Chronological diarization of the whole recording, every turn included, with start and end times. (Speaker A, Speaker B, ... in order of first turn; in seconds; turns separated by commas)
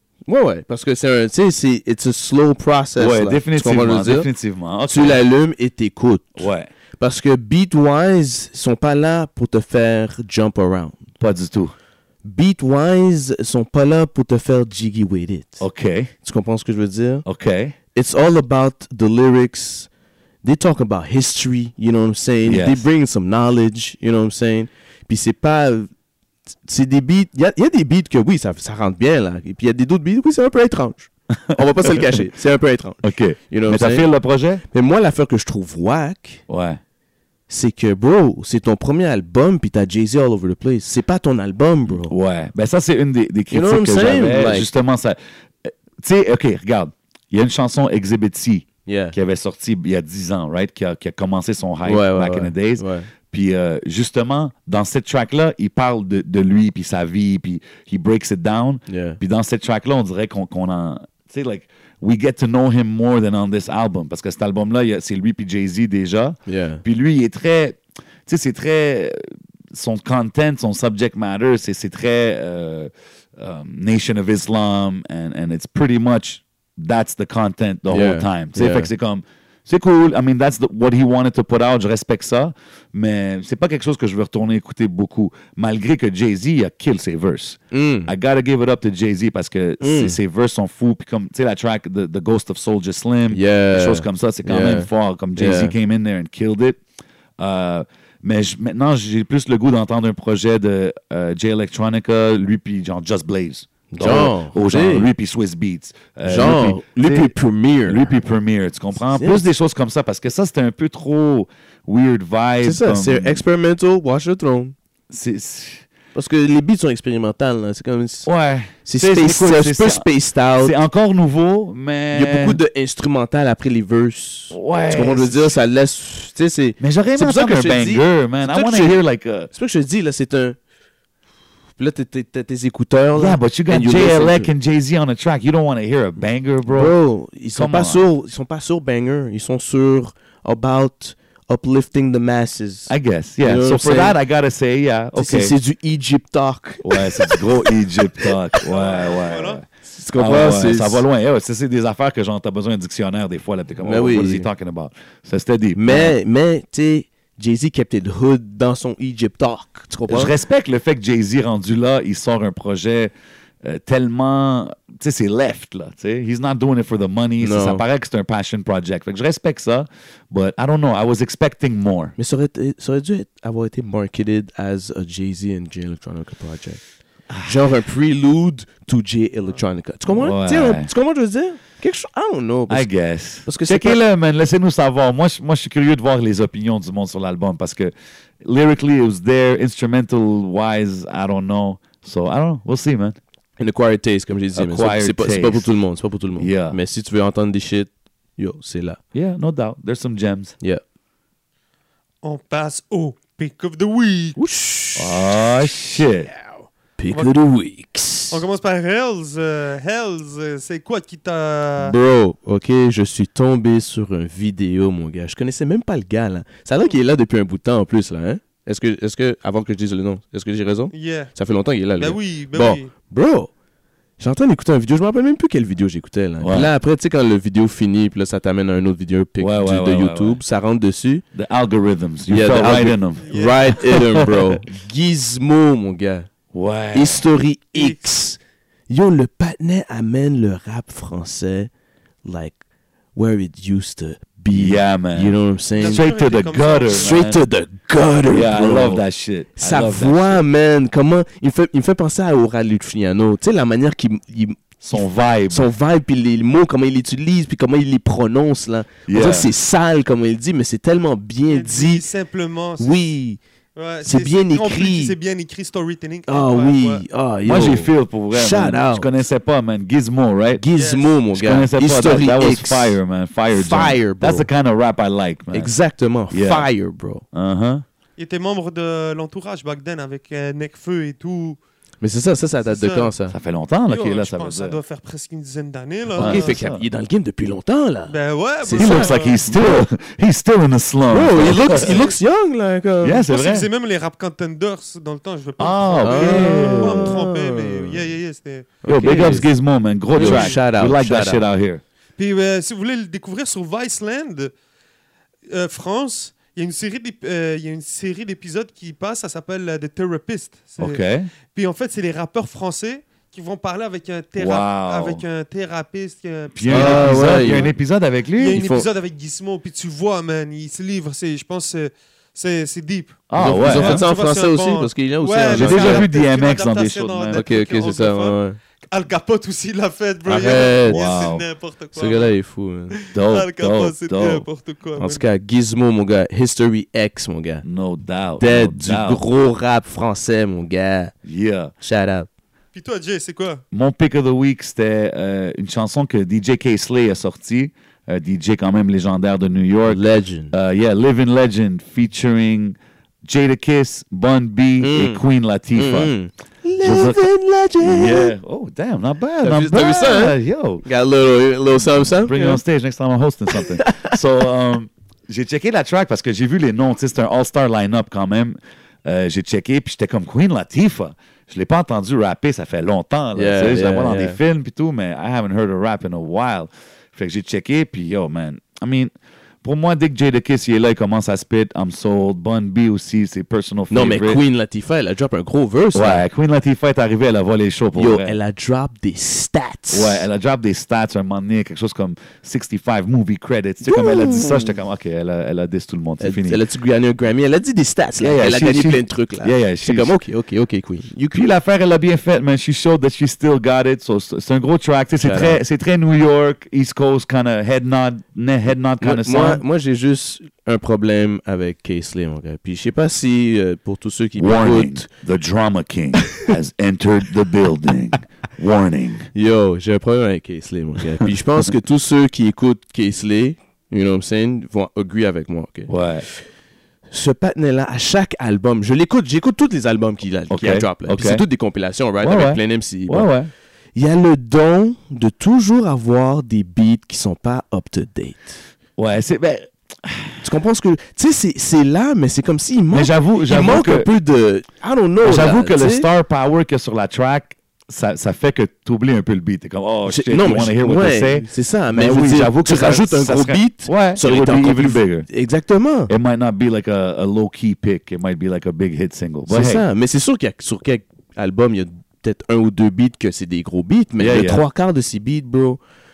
Speaker A: 0.3-4.3, Speaker B: 3.0-5.2, Speaker A: 4.9-6.5, Speaker B: 6.4-6.7, Speaker A: 7.0-11.1, Speaker B: 11.2-11.7, Speaker A: 12.2-15.6, Speaker B: 15.6-16.1, Speaker A: 16.2-17.3, Speaker B: 17.3-17.8, Speaker A: 17.9-19.9, Speaker A: 20.4-25.9, Speaker B: 22.4-22.9, Speaker A: 26.6-34.1, Speaker B: 31.5-32.2, Speaker B: 33.0-34.6, Speaker A: 34.7-36.4, Speaker B: 36.5-36.8, Speaker A: 37.5-42.1, Speaker B: 41.9-96.8, Speaker A: 43.5-44.7, Speaker A: 48.9-49.2, Speaker A: 51.9-53.1, Speaker A: 58.9-59.2, Speaker A: 66.5-66.8, Speaker A: 77.9-78.9, Speaker A: 87.7-88.1, Speaker A: 89.8-90.2, Speaker A: 93.3-95.8, Speaker B: 97.4-107.3, Speaker A: 103.9-105.1, Speaker A: 106.2-108.1, Speaker B: 107.9-113.4, Speaker A: 109.1-109.4, Speaker A: 112.6-114.8, Speaker B: 115.1-115.8, Speaker A: 116.2-118.3, Speaker B: 118.3-120.1, Speaker A: 118.8-120.8, Speaker B: 120.6-122.6, Speaker A: 122.1-130.6, Speaker B: 124.5-125.6, Speaker B: 126.8-129.5, Speaker A: 131.8-134.5, Speaker B: 133.2-137.0, Speaker A: 136.7-144.2, Speaker B: 137.5-138.1, Speaker B: 142.9-145.6, Speaker A: 145.2-148.7, Speaker B: 146.8-156.2, Speaker C: 148.7-149.6, Speaker A: 149.9-151.0, Speaker A: 153.8-154.5, Speaker A: 155.8-160.3, Speaker B: 160.1-163.1, Speaker B: 163.6-172.1, Speaker A: 167.4-167.8, Speaker A: 172.2-176.8, Speaker B: 177.3-177.6, Speaker A: 177.4-182.9, Speaker B: 180.1-180.9, Speaker B: 182.7-193.2, Speaker A: 183.4-184.0, Speaker A: 193.6-199.0, Speaker B: 194.6-195.7, Speaker B: 196.4-196.8, Speaker B: 199.1-200.5, Speaker C: 202.2-204.4, Speaker A: 204.4-205.7, Speaker B: 205.0-206.3, Speaker A: 207.0-208.4, Speaker C: 208.3-212.0, Speaker A: 211.8-223.5, Speaker C: 220.9-221.3, Speaker C: 222.0-222.9, Speaker A: 224.2-231.2, Speaker B: 226.4-226.7, Speaker B: 229.4-230.4, Speaker B: 231.3-234.6, Speaker A: 232.3-236.3, Speaker C: 233.2-233.8, Speaker B: 236.5-237.2, Speaker A: 236.9-238.4, Speaker C: 237.8-238.1, Speaker A: 238.9-241.7, Speaker A: 242.2-242.6, Speaker A: 243.2-246.1, Speaker B: 244.5-247.4, Speaker C: 245.8-247.2, Speaker A: 246.9-249.0, Speaker B: 248.3-250.4, Speaker A: 249.6-262.1, Speaker B: 254.8-255.7, Speaker B: 259.1-259.5, Speaker C: 261.5-263.0, Speaker A: 262.8-263.4, Speaker C: 263.8-267.1, Speaker A: 264.0-265.2, Speaker A: 266.3-269.1, Speaker B: 267.4-270.6, Speaker A: 270.6-273.0, Speaker C: 270.8-271.1, Speaker B: 271.3-275.7, Speaker A: 273.5-274.5, Speaker A: 275.5-277.2, Speaker B: 276.3-276.7, Speaker B: 277.3-277.9, Speaker C: 278.2-281.6, Speaker A: 282.0-283.4, Speaker C: 282.7-283.1, Speaker B: 283.3-284.8, Speaker C: 283.9-286.6, Speaker B: 286.2-286.8, Speaker A: 286.2-289.9, Speaker C: 288.1-289.4, Speaker B: 288.8-292.0, Speaker A: 291.1-293.2, Speaker C: 291.8-292.1, Speaker B: 293.0-293.7, Speaker C: 293.3-299.2, Speaker B: 295.6-297.2, Speaker A: 296.0-298.1, Speaker A: 298.8-299.5, Speaker B: 298.9-301.8, Speaker C: 300.1-300.6, Speaker A: 300.1-301.4, Speaker C: 302.2-304.5, Speaker C: 305.5-311.0, Speaker B: 310.8-311.3, Speaker C: 311.5-317.7, Speaker B: 314.4-315.2, Speaker B: 316.6-318.6, Speaker A: 316.7-317.7, Speaker C: 318.4-328.4, Speaker A: 318.5-318.9, Speaker B: 323.3-324.1, Speaker A: 323.4-326.1, Speaker B: 325.5-327.5, Speaker A: 327.3-328.6, Speaker C: 328.9-332.3, Speaker A: 330.3-331.0, Speaker B: 330.9-331.4, Speaker A: 331.9-333.0, Speaker C: 333.0-335.3, Speaker B: 333.1-334.4, Speaker A: 335.0-337.7, Speaker B: 337.6-339.2, Speaker A: 338.4-341.1, Speaker B: 341.2-341.7, Speaker A: 341.8-342.3, Speaker C: 342.8-343.6, Speaker B: 343.7-356.1, Speaker A: 349.9-350.5, Speaker A: 354.8-355.2, Speaker A: 355.8-358.3, Speaker B: 356.8-357.3, Speaker B: 357.8-360.9, Speaker A: 359.4-362.6, Speaker B: 362.3-379.1, Speaker A: 363.5-364.2, Speaker A: 373.4-374.4, Speaker B: 379.6-384.4, Speaker A: 383.9-386.3, Speaker B: 385.9-388.4, Speaker A: 388.0-390.2, Speaker B: 389.9-396.6, Speaker A: 393.8-394.8, Speaker A: 396.2-401.5, Speaker B: 398.2-400.1, Speaker B: 401.3-409.6, Speaker A: 405.2-405.6, Speaker A: 409.0-415.1, Speaker B: 414.4-419.3, Speaker A: 416.2-416.5, Speaker A: 419.3-426.5, Speaker B: 425.9-426.2, Speaker A: 427.1-433.3, Speaker B: 430.5-431.4, Speaker B: 432.2-433.5, Speaker A: 433.9-438.6, Speaker B: 439.0-440.4, Speaker A: 440.4-446.1, Speaker B: 442.9-444.1, Speaker B: 445.2-455.3, Speaker A: 450.1-456.1, Speaker B: 456.1-459.9, Speaker A: 459.5-465.8, Speaker B: 464.2-464.6